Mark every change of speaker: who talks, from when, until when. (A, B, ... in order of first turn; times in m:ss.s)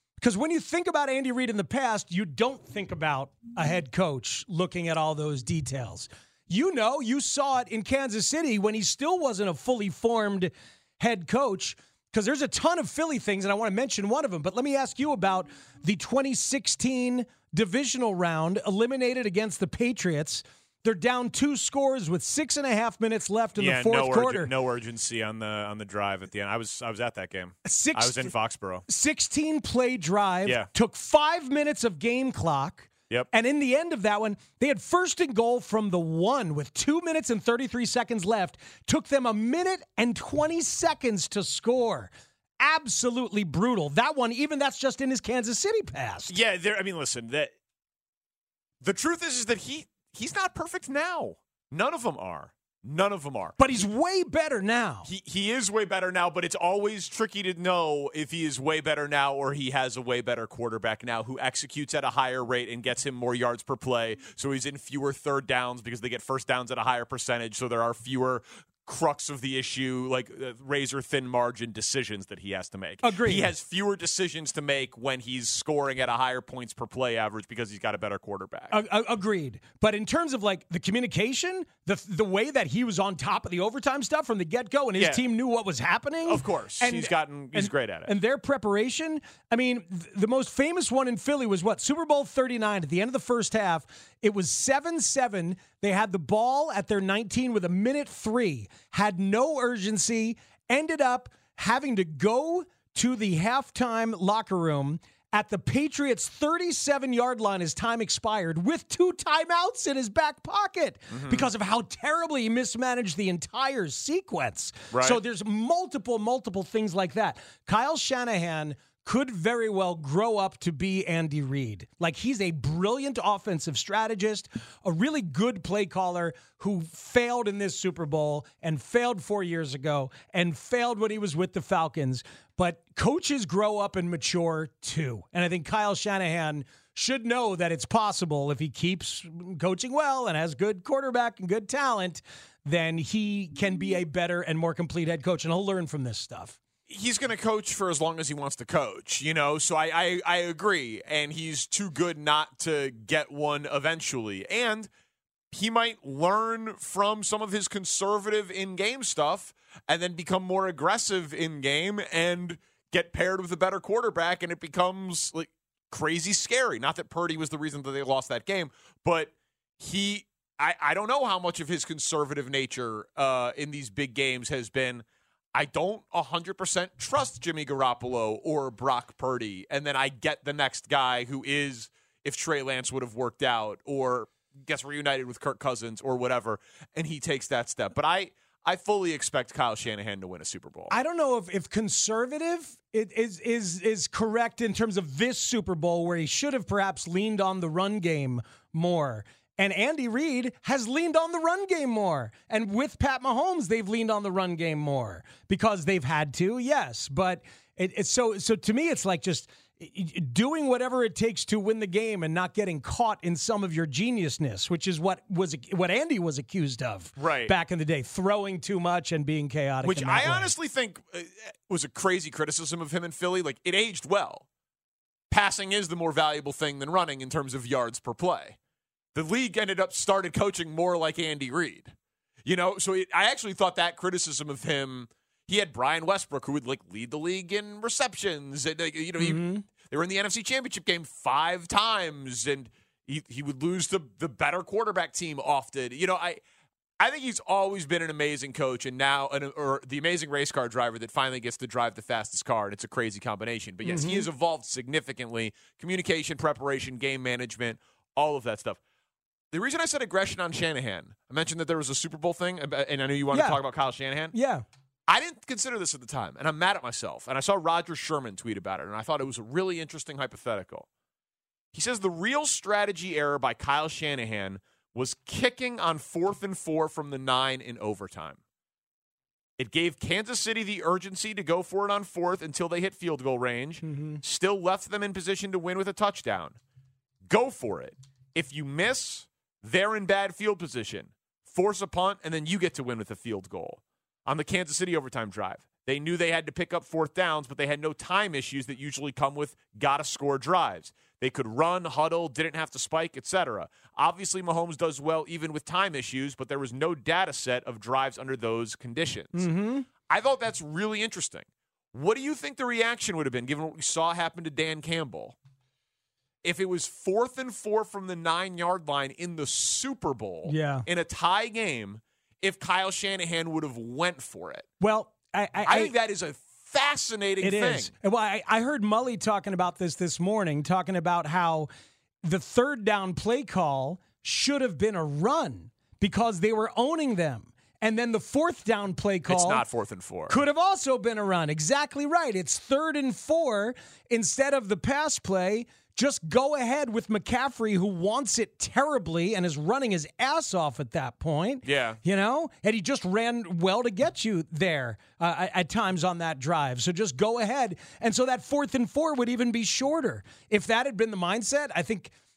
0:00.2-0:24.5 A
0:23.6-0:28.8 B
0:27.6-0:28.3 A
0:28.9-0:46.4 A
0:46.3-0:47.5 B
0:48.8-0:53.6 B
0:53.6-0:55.1 A
0:55.1-1:18.8 B
1:13.0-1:13.5 A
1:18.7-2:26.6 A
1:25.0-1:25.2 B
1:26.2-1:28.1 B
1:51.1-1:51.5 B
1:54.9-1:55.2 B
2:26.9-2:34.9 B
2:35.5-3:11.0 B
3:10.9-3:40.5 A
3:37.2-3:37.5 B
3:39.8-3:44.4 B
3:45.3-3:48.6 B
3:49.2-3:51.9 B
3:52.4-4:06.4 B
3:59.2-3:59.6 A
4:07.0-4:18.8 B
4:13.8-4:14.3 A
4:19.5-4:24.4 B
4:23.3-4:23.6 A
4:24.3-4:24.6 A
4:25.1-4:30.9 B
4:31.7-4:38.4 B
4:39.6-4:46.6 B
4:43.8-4:44.2 A
4:47.3-5:09.5 B
5:09.4-5:09.9 A
5:10.1-5:15.4 B
5:16.4-5:24.7 B
5:20.5-5:20.9 A
5:24.8-5:25.9 A
5:25.7-5:27.9 B
5:27.4-5:31.7 A
5:32.2-5:39.6 A
5:39.3-5:40.4 B
5:40.3-6:02.1 A
5:51.6-5:52.0 B